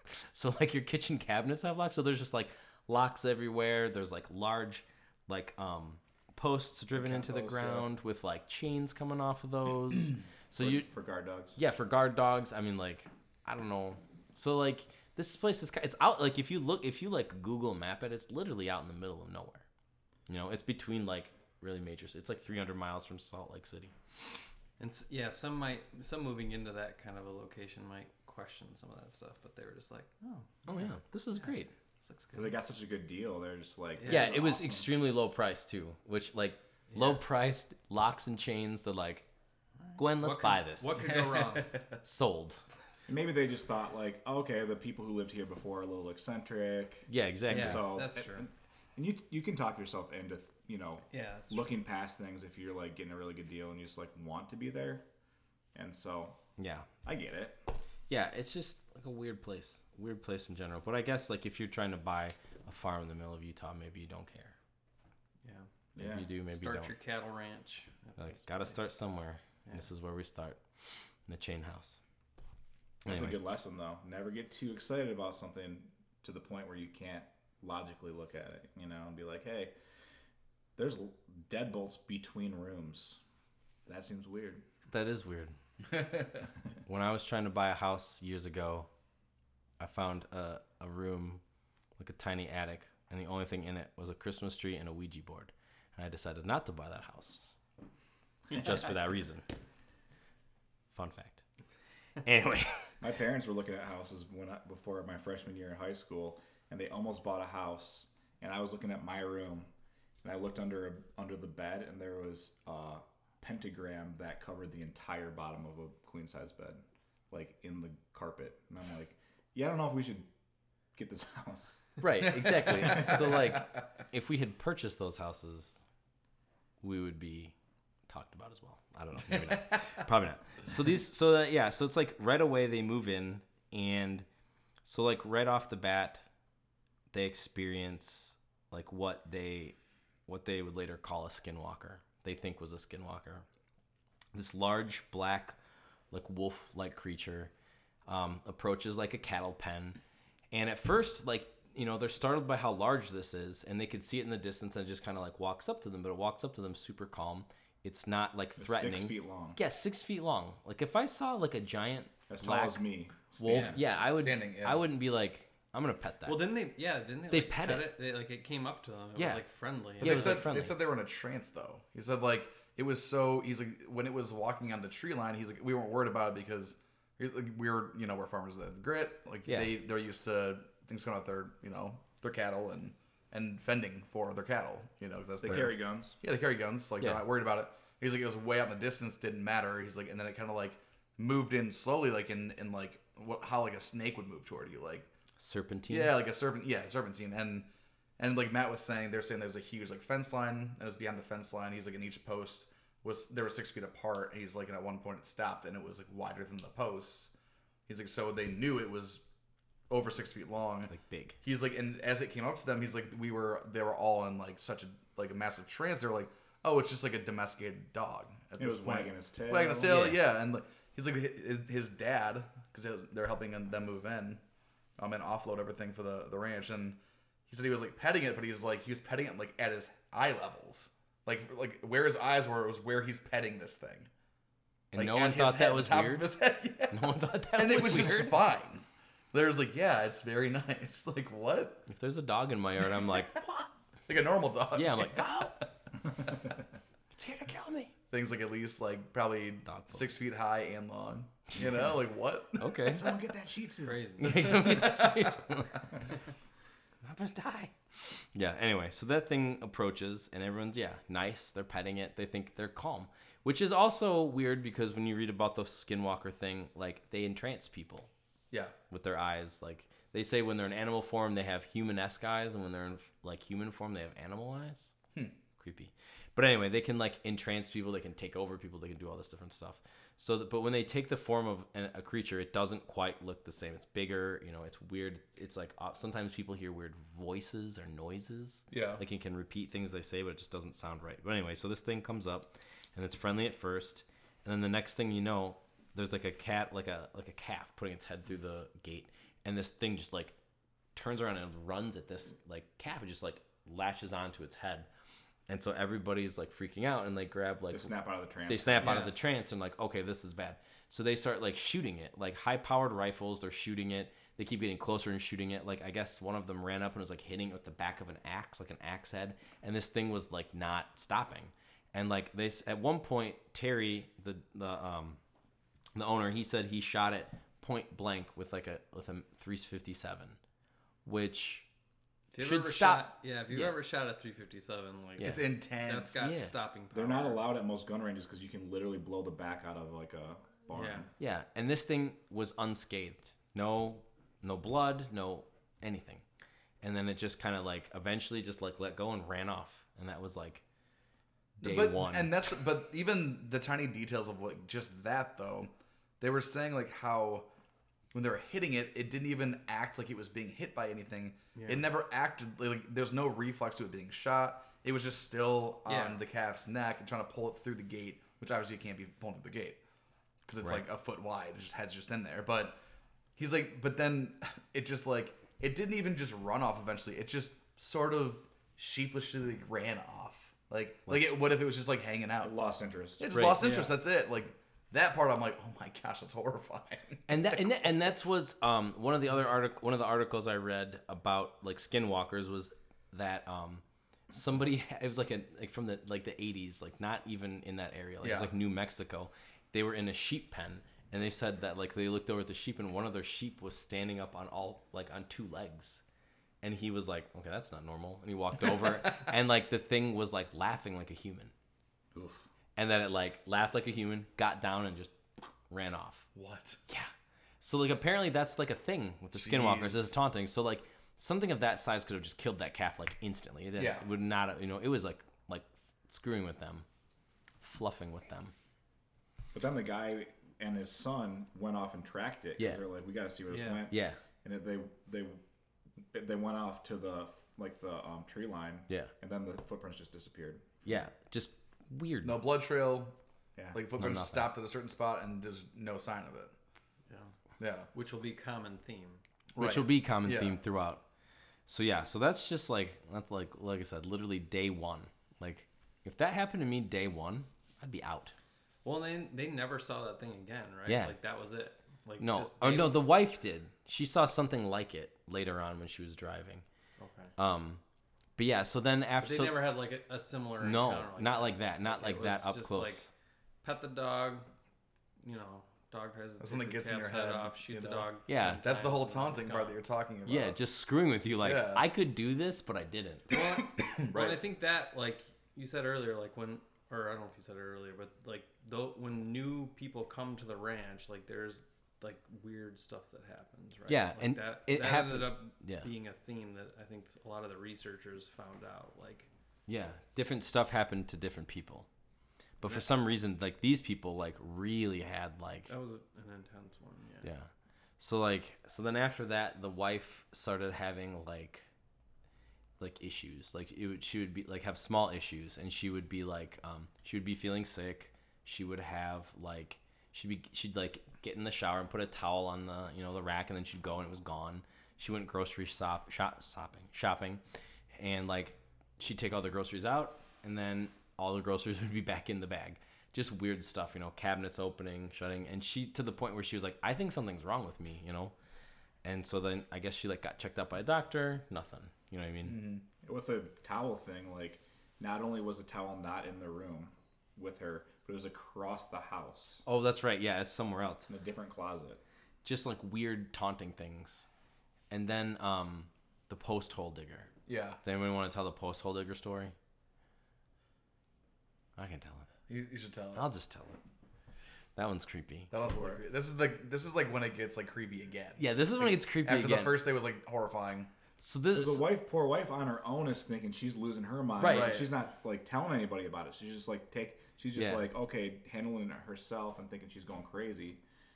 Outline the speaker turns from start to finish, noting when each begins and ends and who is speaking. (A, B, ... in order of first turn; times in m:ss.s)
0:00.2-0:10.9 A
0:07.0-0:07.8 B
0:10.6-0:11.6 B
0:11.5-0:19.6 A
0:20.3-0:23.9 A
0:24.8-0:30.9 C
0:30.7-0:31.7 A
0:31.4-0:32.5 C
0:32.3-0:34.9 B
0:34.0-0:34.3 C
0:34.1-0:39.2 A
0:36.9-0:37.2 C
0:39.9-0:41.8 C
0:40.0-0:41.1 A
0:41.1-0:41.8 D
0:42.0-0:42.6 A
0:43.1-0:55.0 B
0:47.1-0:47.9 A
0:47.5-0:48.4 C
0:51.1-0:51.7 C
0:55.7-0:56.4 B
0:56.6-0:56.9 A
0:57.0-0:57.6 B
0:58.1-1:04.5 A
1:05.4-1:05.7 C
1:06.0-1:06.3 B
1:06.0-1:06.9 A
1:06.5-1:08.9 C
1:08.2-1:12.0 A
1:13.0-1:13.4 A
1:13.1-1:19.7 B
1:20.8-1:23.2 B
1:23.9-1:24.6 B
1:24.9-1:25.5 A
1:26.9-1:28.9 A
1:29.8-1:31.4 A
1:32.0-1:37.5 A
1:38.5-1:39.5 A
1:40.9-1:41.4 A
1:42.2-1:42.9 A
1:43.0-1:49.7 B
1:50.2-2:00.3 B
2:01.0-2:03.4 B
2:02.0-2:05.8 A
2:06.8-2:07.5 A
2:08.1-2:14.2 A
2:14.8-2:16.3 A
2:17.1-2:19.8 A
2:20.3-2:23.5 A
2:24.3-2:25.6 A
2:26.1-2:27.5 A
2:28.1-2:30.0 A
2:30.5-2:42.8 A
2:38.6-2:39.6 B
2:42.3-2:43.8 B
2:43.4-2:46.4 A
2:44.1-2:44.9 D
2:46.2-2:50.4 C
2:47.3-2:47.9 A
2:49.2-2:49.4 A
2:50.0-2:50.8 A
2:50.0-3:15.1 D
2:59.5-2:59.7 A
3:05.4-3:06.2 B
3:15.4-3:16.1 A
3:15.9-3:17.7 D
3:18.2-3:27.3 D
3:27.9-3:29.2 D
3:29.9-3:44.4 D
3:30.9-3:31.4 A
3:38.6-3:40.0 B
3:39.8-3:40.2 A
3:45.0-3:54.1 D
3:54.9-3:56.3 A
3:54.9-4:01.9 D
3:56.9-3:58.4 A
4:01.9-4:03.6 A
4:04.1-4:05.7 D
4:04.7-4:05.6 A
4:07.1-4:07.9 A
4:08.1-4:13.0 D
4:09.6-4:10.1 A
4:12.6-4:13.1 A
4:12.9-4:14.5 B
4:13.8-4:14.8 C
4:14.2-4:16.0 A
4:17.0-4:28.1 A
4:28.9-4:34.9 A
4:35.6-5:00.4 A
4:48.7-4:49.0 D
5:01.0-5:04.9 A
5:05.5-5:07.9 A
5:07.7-5:09.0 B
5:08.5-5:25.2 A
5:08.8-5:09.1 C
5:26.0-5:30.4 A
5:31.0-5:31.7 A
5:32.3-5:37.5 C
5:32.4-5:33.8 A
5:35.2-5:35.4 A
5:35.2-5:36.4 D
5:36.2-5:36.5 A
5:36.9-5:41.1 B
5:40.7-5:41.1 C
5:41.2-5:46.2 A
5:46.8-5:50.6 A
5:51.6-5:52.3 A
5:51.6-5:57.5 D
5:58.1-6:09.8 D
6:01.5-6:01.8 C
6:05.8-6:06.2 C
6:10.5-6:12.8 D
6:13.4-6:22.5 D
6:22.4-6:23.5 B
6:23.2-6:28.0 D
6:23.3-6:23.6 A
6:23.6-6:24.0 C
6:27.3-6:46.0 A
6:38.2-6:38.5 D
6:46.6-6:51.5 A
6:52.1-6:52.4 B
6:52.8-6:55.2 A
6:55.7-6:56.3 A
6:56.3-6:56.8 D
6:56.9-7:06.8 A
6:59.3-7:00.1 D
7:03.8-7:04.0 D
7:07.6-7:08.5 A
7:09.5-7:15.4 B
7:13.5-7:13.8 C
7:13.9-7:14.2 A
7:16.1-7:20.7 B
7:20.8-7:22.4 A
7:22.2-7:23.2 D
7:23.7-7:26.5 D
7:24.0-7:24.5 A
7:27.6-7:27.9 D
7:27.9-7:29.2 C
7:29.5-7:30.6 D
7:29.6-7:31.0 A
7:31.7-7:38.3 A
7:38.8-7:43.0 C
7:40.8-7:41.2 A
7:42.2-7:46.6 A
7:47.0-7:47.3 C
7:47.4-7:47.8 A
7:48.4-7:49.6 A
7:49.2-7:53.1 C
7:50.6-7:53.1 A
7:53.6-7:54.5 C
7:55.2-7:59.8 C
7:56.4-7:58.1 D
7:58.3-7:58.6 A
7:58.6-8:00.6 D
8:00.2-8:03.4 A
8:01.4-8:01.8 D
8:03.3-8:19.3 C
8:03.3-8:04.4 D
8:13.9-8:15.9 A
8:19.7-8:21.9 A
8:22.6-8:25.7 A
8:25.7-8:27.3 C
8:27.2-8:31.7 A
8:32.8-8:47.4 A
8:47.9-8:58.3 A
8:59.0-9:02.6 A
9:02.4-9:02.8 D
9:03.0-9:09.6 B
9:09.6-9:11.1 A
9:11.1-9:12.0 B
9:12.4-9:14.3 A
9:14.9-9:17.3 A
9:17.5-9:17.8 D
9:17.8-9:19.5 A
9:21.8-9:22.3 A
9:22.5-9:23.3 D
9:23.2-9:23.8 A
9:24.8-9:25.5 A
9:25.5-9:30.9 D
9:28.4-9:29.8 A
9:31.2-9:31.9 A
9:31.5-9:40.8 B
9:34.4-9:34.8 A
9:34.4-9:34.9 D
9:37.5-9:37.9 A